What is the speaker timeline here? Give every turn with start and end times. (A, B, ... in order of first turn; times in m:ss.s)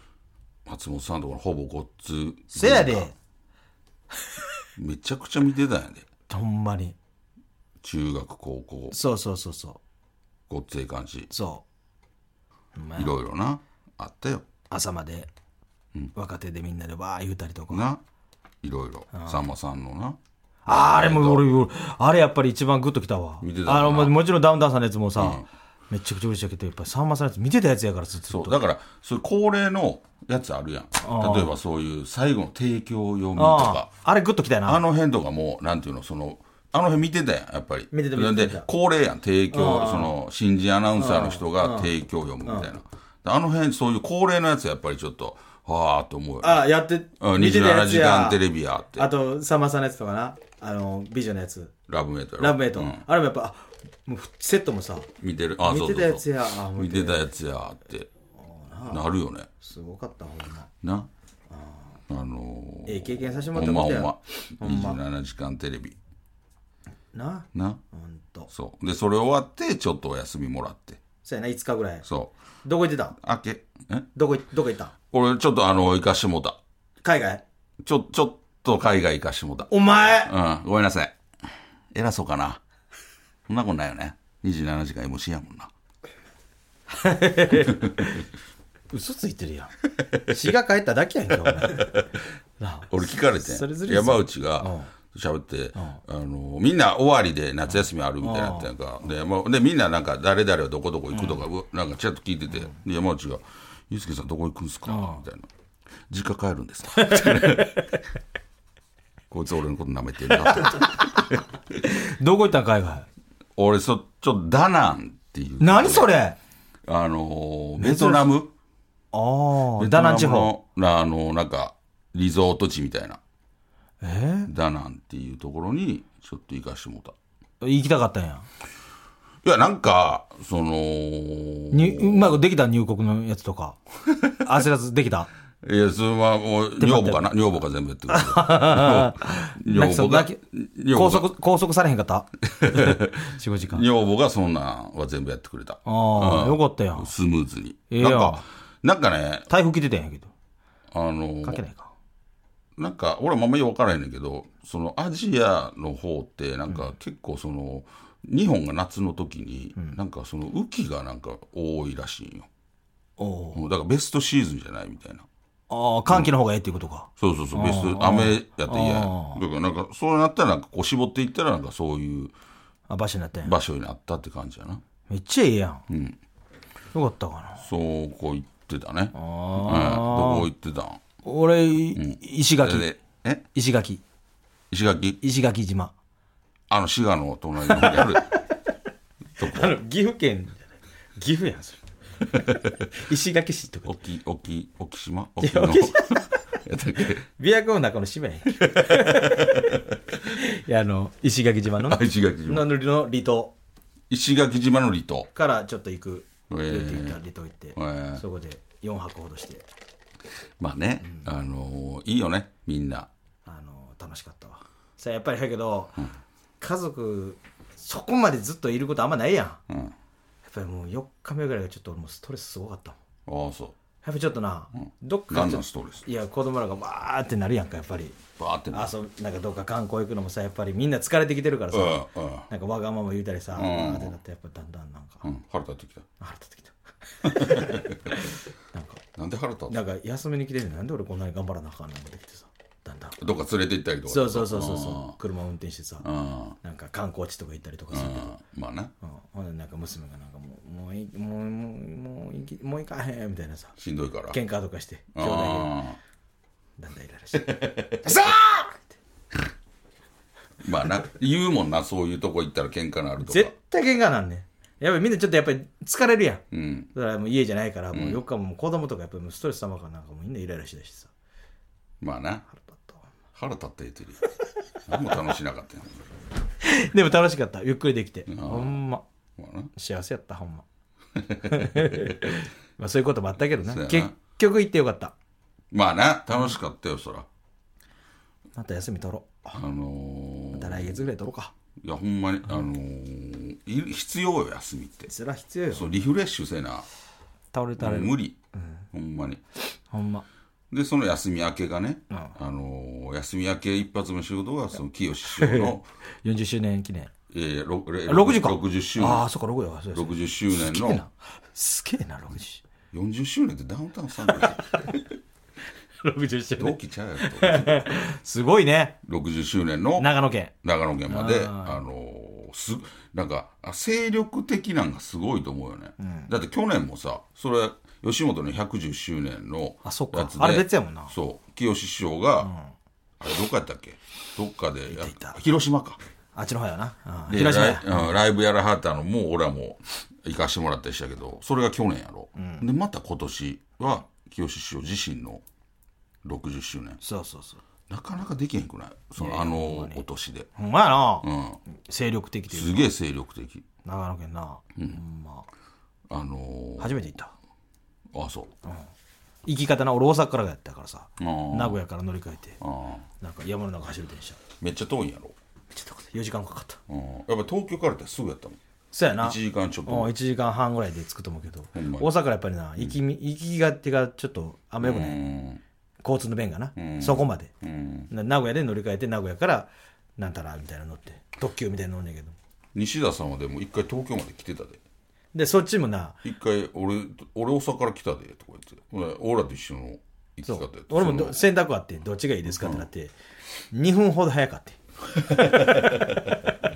0:00.6-0:03.1 A
0:02.5-0:03.1 B
0:04.8-0:06.0 A
0:06.3-0:07.0 B
0:07.8-0:09.0 A
0:08.9-0:09.8 B
0:10.5-0:11.3 A
0:11.3-0:11.6 B
0:12.7-0:13.2 B
0:13.0-0:14.4 A
0:14.7-0:15.3 B
0:16.1-0:17.9 B
0:17.7-0:18.0 A
0:18.6-0:21.4 A
0:19.1-0:19.4 B
0:20.6-0:28.6 B
0:23.4-0:24.2 A
0:25.2-0:25.5 A
0:28.3-0:33.9 A
0:31.0-0:31.5 B
0:33.4-0:34.8 B
0:34.6-0:46.6 A
0:37.9-0:38.7 B
0:39.5-0:40.1 B
0:41.0-0:41.9 B
0:42.4-0:42.7 B
0:46.4-0:48.4 B
0:47.2-0:49.1 A
0:49.0-0:51.7 B
0:51.9-0:53.0 A
0:52.4-0:55.1 B
0:55.2-0:58.1 A
0:55.6-0:57.2 B
0:58.3-0:59.0 B
0:58.9-0:59.5 A
0:59.6-1:00.7 B
1:00.8-1:01.1 A
1:01.5-1:01.9 B
1:02.1-1:06.0 A
1:02.8-1:05.0 B
1:07.1-1:08.5 B
1:07.5-1:07.8 A
1:08.5-1:11.0 A
1:11.2-1:12.0 B
1:12.0-1:12.3 A
1:12.6-1:13.1 B
1:13.2-1:14.1 A
1:14.1-1:14.9 B
1:15.1-1:16.6 A
1:17.0-1:17.4 B
1:17.8-1:21.1 A
1:19.7-1:20.3 B
1:21.9-1:22.6 A
1:23.5-1:25.7 A
1:26.9-1:28.2 B
1:28.9-1:32.0 B
1:31.4-1:32.1 A
1:32.6-1:34.9 B
1:32.9-1:45.5 A
1:38.2-1:38.7 B
1:41.1-1:41.4 B
1:44.9-1:45.2 B
1:46.1-1:47.8 A
1:46.9-1:48.0 B
1:49.3-1:51.3 A
1:50.5-1:50.9 B
1:51.8-1:53.1 B
1:53.6-1:56.1 A
1:55.6-1:56.4 B
1:56.8-1:58.5 A
1:57.8-1:58.2 B
1:59.1-2:00.5 B
1:59.8-2:03.2 A
2:04.0-2:04.5 B
2:04.5-2:07.1 A
2:07.6-2:08.5 B
2:09.4-2:12.3 A
2:11.7-2:13.8 B
2:14.3-2:15.3 B
2:15.6-2:21.3 A
2:16.8-2:17.2 B
2:18.1-2:20.4 B
2:20.9-2:23.8 B
2:22.5-2:23.2 A
2:23.7-2:29.5 A
2:25.8-2:27.1 B
2:27.9-2:28.4 B
2:29.5-2:30.3 B
2:30.9-2:31.6 A
2:31.4-2:31.9 B
2:32.8-2:42.5 A
2:43.2-2:43.6 B
2:43.5-2:45.3 A
2:45.7-2:49.4 B
2:47.2-2:52.3 A
2:52.9-2:53.5 B
2:53.4-2:54.8 A
2:55.1-2:55.8 B
2:55.9-2:56.2 A
2:56.9-2:57.7 B
2:57.6-3:01.0 A
2:59.1-3:00.5 B
3:01.2-3:02.9 B
3:01.9-3:03.4 A
3:03.5-3:04.0 B
3:04.7-3:05.2 A
3:05.2-3:05.9 B
3:06.7-3:08.3 A
3:07.6-3:08.4 B
3:09.4-3:09.8 A
3:09.4-3:11.8 B
3:12.9-3:14.0 B
3:13.8-3:17.2 A
3:15.4-3:16.4 B
3:17.3-3:23.5 B
3:18.6-3:19.8 A
3:21.8-3:22.7 A
3:24.1-3:25.3 A
3:25.3-3:29.6 B
3:26.5-3:27.2 A
3:27.7-3:28.2 A
3:30.6-3:33.1 A
3:33.4-3:36.1 B
3:36.6-3:39.6 B
3:39.7-3:39.9 A
3:40.4-3:43.0 B
3:43.3-3:43.8 A
3:44.0-3:48.2 B
3:44.8-3:46.0 A
3:48.4-3:48.9 A
3:48.7-3:55.3 B
3:51.7-3:52.5 A
3:53.5-3:54.1 A
3:55.2-3:56.1 A
3:56.2-3:59.0 B
3:57.2-3:58.1 A
3:59.2-3:59.8 A
3:59.7-4:03.2 B
4:03.2-4:05.2 A
4:04.1-4:06.0 B
4:06.0-4:06.6 A
4:06.6-4:08.4 B
4:07.9-4:08.9 A
4:09.0-4:13.7 B
4:13.8-4:14.4 A
4:14.3-4:15.8 B
4:15.1-4:16.0 A
4:16.8-4:18.9 B
4:17.3-4:18.3 A
4:20.6-4:23.5 A
4:23.2-4:26.4 B
4:26.5-4:26.9 A
4:26.9-4:31.1 B
4:27.9-4:28.2 A
4:32.0-4:32.4 A
4:32.5-4:33.0 B
4:33.3-4:34.2 A
4:34.9-4:36.1 A
4:36.6-4:39.0 B
4:38.3-4:38.8 A
4:39.4-4:39.7 A
4:39.7-4:40.6 B
4:41.2-4:42.2 A
4:41.4-4:45.1 B
4:43.7-4:44.1 A
4:45.7-4:47.3 A
4:48.5-4:49.6 B
4:49.5-4:51.0 A
4:50.5-4:51.5 B
4:51.8-4:55.1 A
4:55.1-4:56.0 B
4:55.7-4:56.8 A
4:57.5-4:58.8 B
4:57.8-4:58.4 A
4:58.9-4:59.4 A
4:59.9-5:00.2 B
5:00.7-5:05.9 A
5:02.1-5:02.3 B
5:05.3-5:07.1 B
5:07.3-5:09.2 A
5:08.1-5:12.6 B
5:09.9-5:11.0 A
5:12.9-5:14.9 A
5:14.4-5:14.9 B
5:16.0-5:19.0 B
5:16.6-5:17.9 A
5:19.0-5:20.1 A
5:20.0-5:20.5 B
5:20.6-5:32.5 A
5:21.1-5:21.8 B
5:26.0-5:26.3 B
5:29.8-5:31.1 B
5:32.4-5:32.7 B
5:33.2-5:36.0 A
5:34.9-5:35.4 B
5:36.3-5:38.1 B
5:37.3-5:45.4 A
5:42.4-5:42.6 B
5:46.2-5:47.0 A
5:47.0-5:47.6 B
5:47.9-5:50.5 A
5:49.2-5:50.0 B
5:50.6-5:52.9 B
5:51.2-5:51.6 A
5:52.5-5:53.6 A
5:53.8-5:55.5 B
5:56.1-5:57.1 A
5:56.8-5:57.3 B
5:58.1-5:58.5 A
5:59.4-6:02.6 B
6:01.2-6:01.8 A
6:02.6-6:03.0 A
6:03.2-6:04.4 B
6:04.6-6:05.3 A
6:05.7-6:06.8 B
6:06.9-6:08.6 A
6:08.9-6:15.2 B
6:09.2-6:10.1 A
6:11.7-6:12.1 A
6:14.8-6:15.6 A
6:16.0-6:17.5 B
6:16.8-6:18.1 A
6:18.1-6:22.3 B
6:22.7-6:24.8 A
6:25.3-6:26.2 B
6:26.2-6:31.4 A
6:30.5-6:33.1 B
6:32.5-6:32.8 A
6:33.7-6:34.8 B
6:35.2-6:36.3 A
6:35.4-6:36.2 B